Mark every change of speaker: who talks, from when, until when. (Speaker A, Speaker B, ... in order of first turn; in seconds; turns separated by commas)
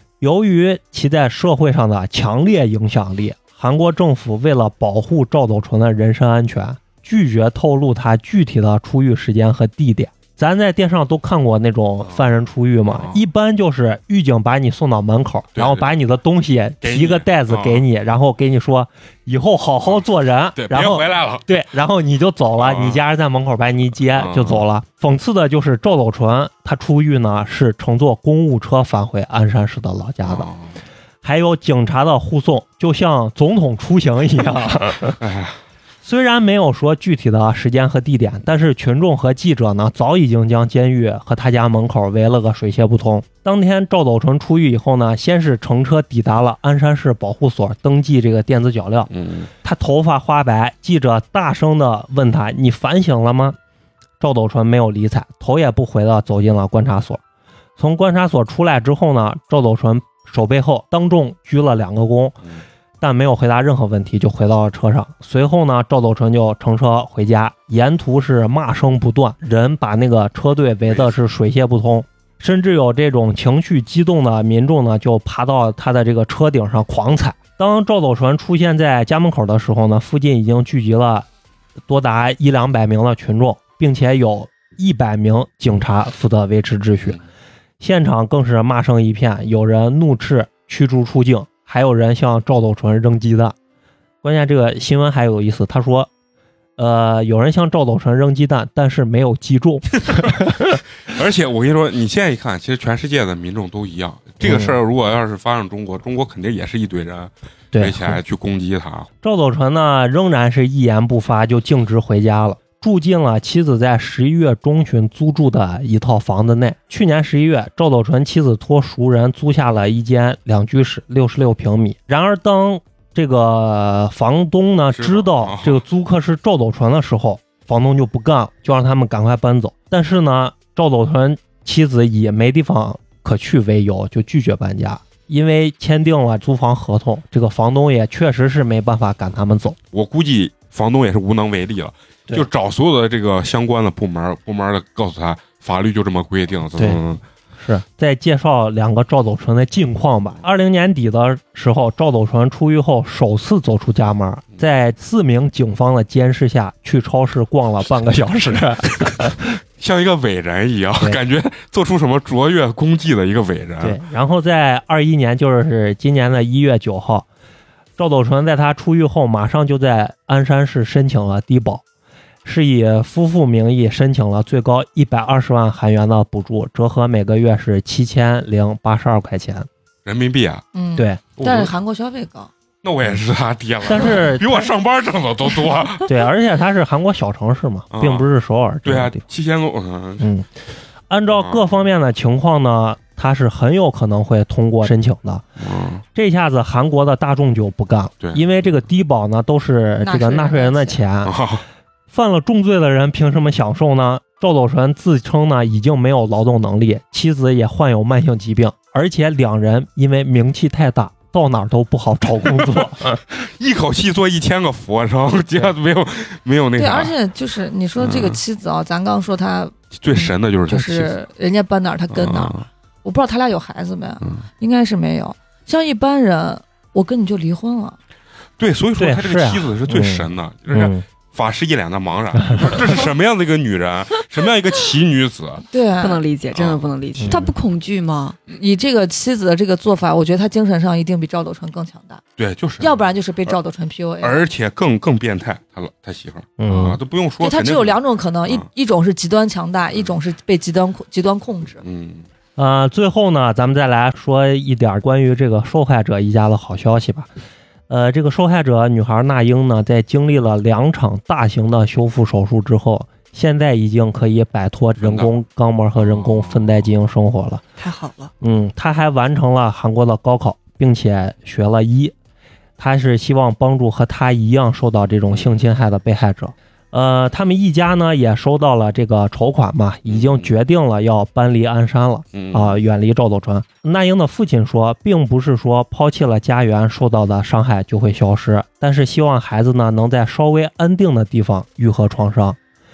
Speaker A: 0.2-30.5, Speaker B: 12.8-13.2, Speaker B: 15.6-15.9, Speaker B: 16.8-17.8, Speaker B: 20.6-21.5, Speaker B: 22.6-23.0, Speaker B: 24.1-24.6, Speaker B: 30.2-30.7, Speaker A: 31.2-35.2, Speaker B: 35.2-35.6, Speaker A: 36.0-49.1, Speaker B: 49.1-49.5, Speaker A: 49.6-53.6, Speaker A: 54.2-57.2, Speaker A: 57.8-62.4, Speaker A: 63.0-81.3, Speaker B: 70.9-71.2, Speaker A: 81.9-87.2, Speaker A: 87.8-93.5, Speaker A: 94.2-96.1, Speaker A: 96.8-100.8, Speaker B: 101.0-109.1, Speaker A: 104.4-104.8, Speaker A: 107.7-108.2, Speaker A: 109.2-139.8, Speaker B: 124.9-125.8, Speaker B: 139.9-147.2, Speaker A: 146.8-147.0, Speaker A: 147.6-159.5, Speaker B: 159.0-164.0, Speaker A: 163.8-167.3, Speaker A: 168.0-171.8, Speaker A: 172.4-179.7, Speaker B: 180.1-180.6, Speaker C: 180.8-182.5, Speaker A: 181.0-181.2, Speaker B: 181.4-181.7, Speaker B: 182.8-186.2, Speaker A: 183.9-184.7, Speaker A: 186.1-189.2, Speaker B: 187.9-188.3, Speaker B: 188.8-190.3, Speaker A: 190.2-190.5, Speaker A: 191.1-195.4, Speaker B: 191.3-191.7, Speaker B: 195.6-196.0, Speaker A: 196.2-201.3, Speaker C: 200.0-201.0, Speaker B: 201.2-201.6, Speaker A: 202.1-213.2, Speaker B: 213.3-217.2, Speaker C: 216.8-228.0, Speaker B: 218.0-218.4, Speaker B: 219.9-221.1, Speaker B: 222.1-222.7, Speaker B: 228.6-235.7, Speaker A: 229.0-231.0, Speaker A: 232.5-232.8, Speaker C: 235.7-236.2, Speaker D: 236.0-238.4, Speaker B: 236.5-236.8, Speaker A: 237.2-237.5, Speaker C: 238.5-242.2, Speaker B: 242.4-243.6, Speaker C: 242.8-244.4, Speaker B: 244.2-248.7, Speaker A: 246.6-247.0, Speaker C: 247.4-251.8, Speaker B: 251.8-252.3, Speaker A: 252.6-257.3, Speaker A: 257.9-267.6, Speaker B: 265.0-265.3, Speaker B: 266.0-266.9, Speaker D: 267.8-268.3, Speaker A: 268.4-272.1, Speaker A: 272.8-292.6, Speaker B: 280.1-280.5, Speaker B: 282.3-282.8